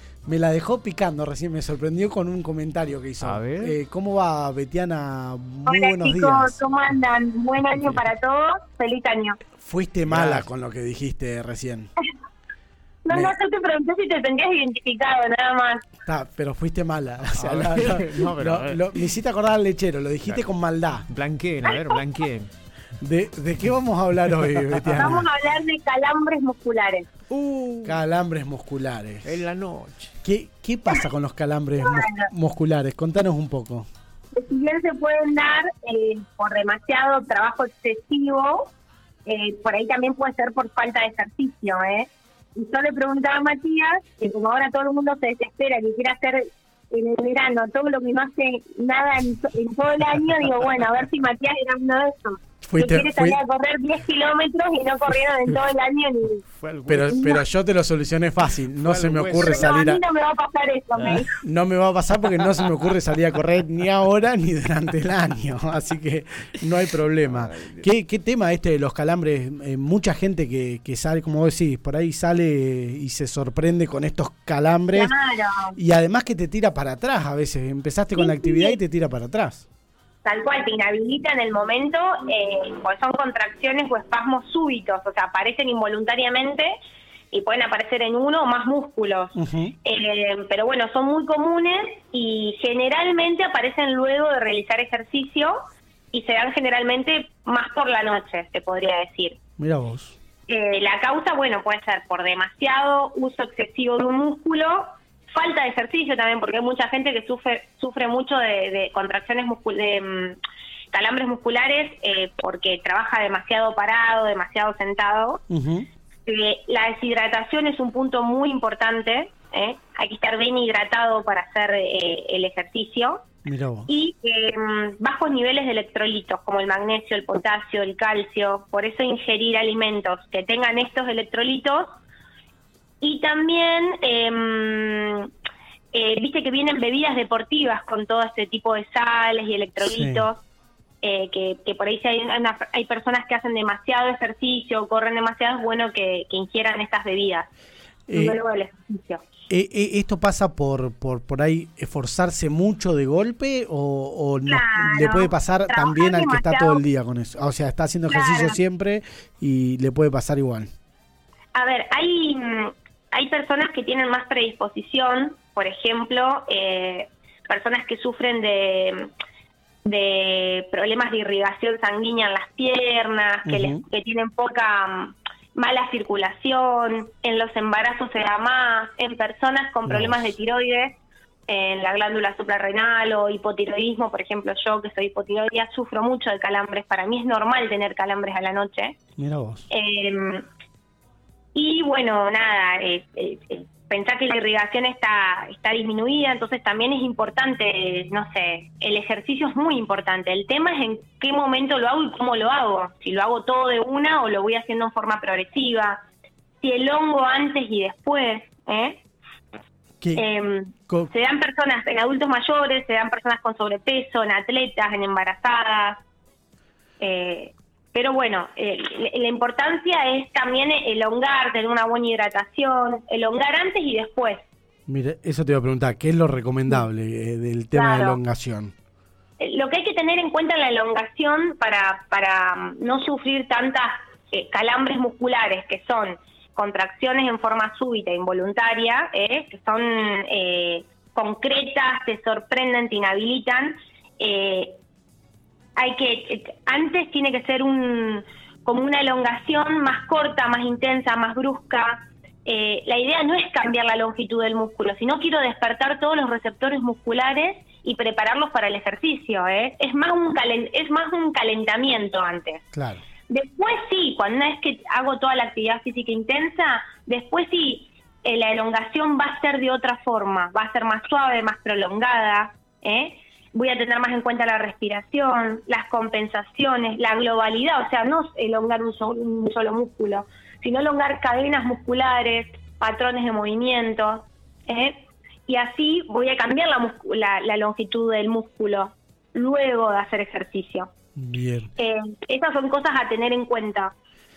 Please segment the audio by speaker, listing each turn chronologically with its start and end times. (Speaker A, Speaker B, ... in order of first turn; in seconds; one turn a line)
Speaker A: 0.2-6.6
Speaker B: 3.2-3.7
Speaker C: 5.7-9.4
Speaker A: 9.6-11.9
Speaker B: 10.1-10.4
Speaker C: 13.1-15.9
Speaker A: 13.1-13.3
Speaker A: 16.1-21.1
Speaker B: 17.4-18.9
Speaker B: 21.1-22.5
Speaker C: 21.6-22.0
Speaker A: 23.0-25.2
Speaker C: 24.9-27.1
Speaker B: 27.3-28.0
Speaker A: 27.8-29.3
Speaker B: 29.2-30.1
Speaker A: 30.2-33.9
Speaker C: 31.8-32.3
Speaker C: 34.3-38.7
Speaker C: 39.2-56.4
Speaker A: 52.6-53.4
Speaker B: 56.6-57.2
Speaker A: 56.9-60.0
Speaker C: 57.1-57.4
Speaker B: 58.8-59.7
Speaker C: 59.4-61.3
Speaker B: 61.0-61.2
Speaker A: 61.3-75.1
Speaker B: 67.4-67.7
Speaker C: 74.9-75.7
Speaker A: 75.7-79.7
Speaker C: 78.2-78.8
Speaker C: 80.2-86.7
Speaker C: 87.3-95.6
Speaker A: 89.3-89.7
Speaker C: 96.1-99.4
Speaker A: 99.6-100.2
Speaker C: 100.5-110.4
Speaker C: 110.9-115.4
Speaker A: 115.5-115.9
Speaker C: 116.3-123.2
Speaker A: 123.4-123.9
Speaker C: 123.9-131.9
Speaker C: 133.0-135.3
Speaker C: 135.9-140.4
Speaker A: 139.8-140.3
Speaker C: 141.0-147.5
Speaker A: 148.1-148.4
Speaker C: 148.1-149.2
Speaker A: 149.5-160.7
Speaker C: 154.5-156.8
Speaker C: 158.1-158.6
Speaker C: 161.5-169.1
Speaker C: 169.8-189.0
Speaker A: 173.4-173.8
Speaker A: 179.8-180.3
Speaker A: 189.2-189.6
Speaker C: 189.7-190.4
Speaker C: 191.5-206.0
Speaker C: 206.6-209.0
Speaker C: 210.1-216.0
Speaker C: 217.0-224.5
Speaker A: 224.9-228.7
Speaker C: 227.7-228.2
Speaker C: 229.4-244.8
Speaker C: 245.8-262.6
Speaker A: 262.7-263.0
Speaker C: 263.3-290.9
Speaker A: 291.1-291.7
Speaker C: 291.8-293.9